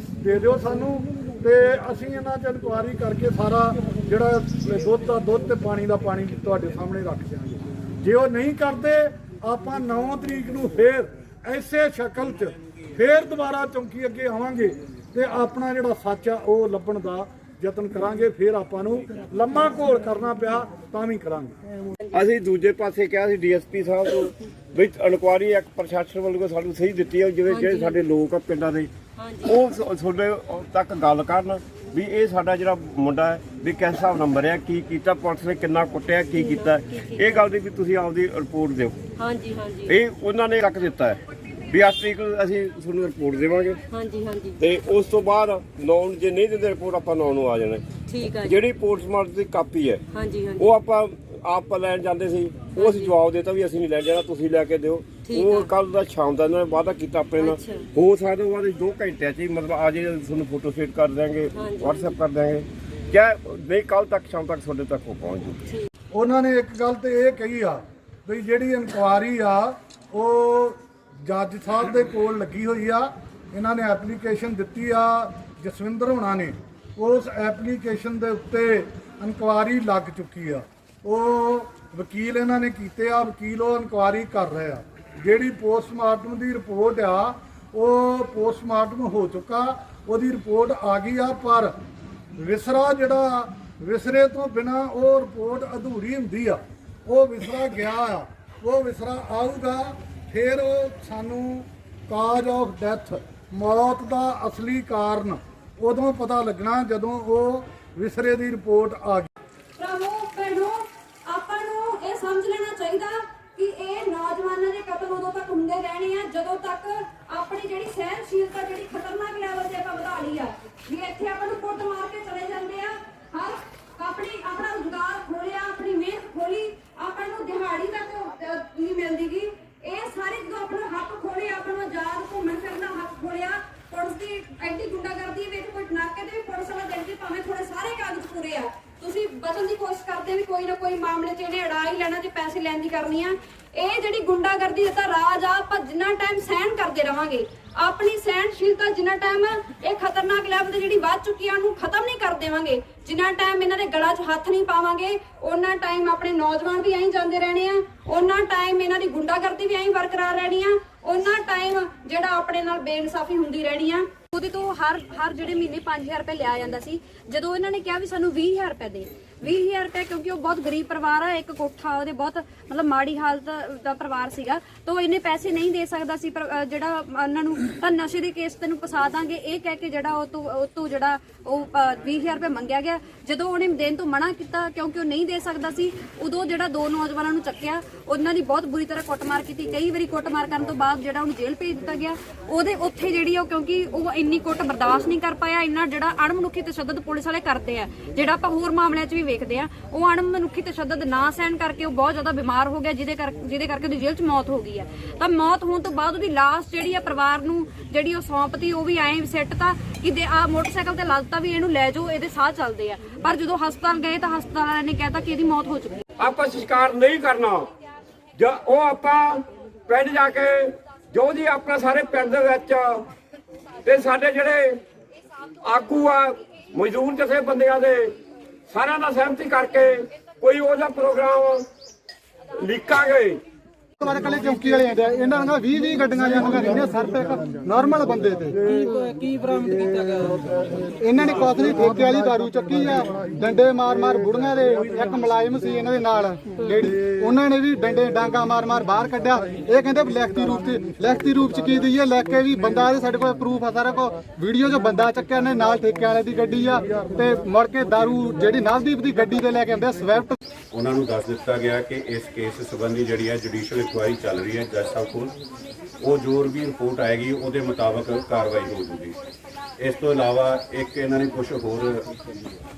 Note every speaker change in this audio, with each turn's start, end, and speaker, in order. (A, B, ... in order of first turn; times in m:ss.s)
0:00.2-0:21.6 A
0:22.1-0:28.9 B
0:27.5-0:28.0 C
0:29.2-0:29.6 C
0:29.4-0:39.0 B
0:36.4-0:37.4 C
0:39.2-0:40.0 C
0:39.9-0:43.8 B
0:43.9-0:44.6 C
0:44.6-0:47.9 B
0:48.1-0:48.6 C
0:48.4-0:50.0 B
0:50.1-0:50.7 C
0:50.6-1:05.7 B
0:52.7-0:53.2 C
0:55.2-0:55.7 C
0:57.4-0:57.8 C
1:01.5-1:02.0 C
1:06.1-1:31.7 A
1:32.4-1:49.3 A
1:49.8-3:36.0 D
3:36.2-3:37.7 E
3:38.4-3:43.0 E
3:43.8-3:44.8 E
3:45.6-3:48.1 E
3:48.7-3:51.6 E
3:52.6-3:53.4 E
3:54.0-3:58.7 F
3:56.1-3:57.8 A
3:58.5-4:05.9 A
4:01.0-4:20.4 F
4:06.6-4:08.4 A
4:09.2-4:13.0 A
4:16.5-4:18.6 A
4:19.2-4:19.6 A
4:20.7-4:25.4 G
4:26.0-4:29.2 G
4:29.8-4:32.1 G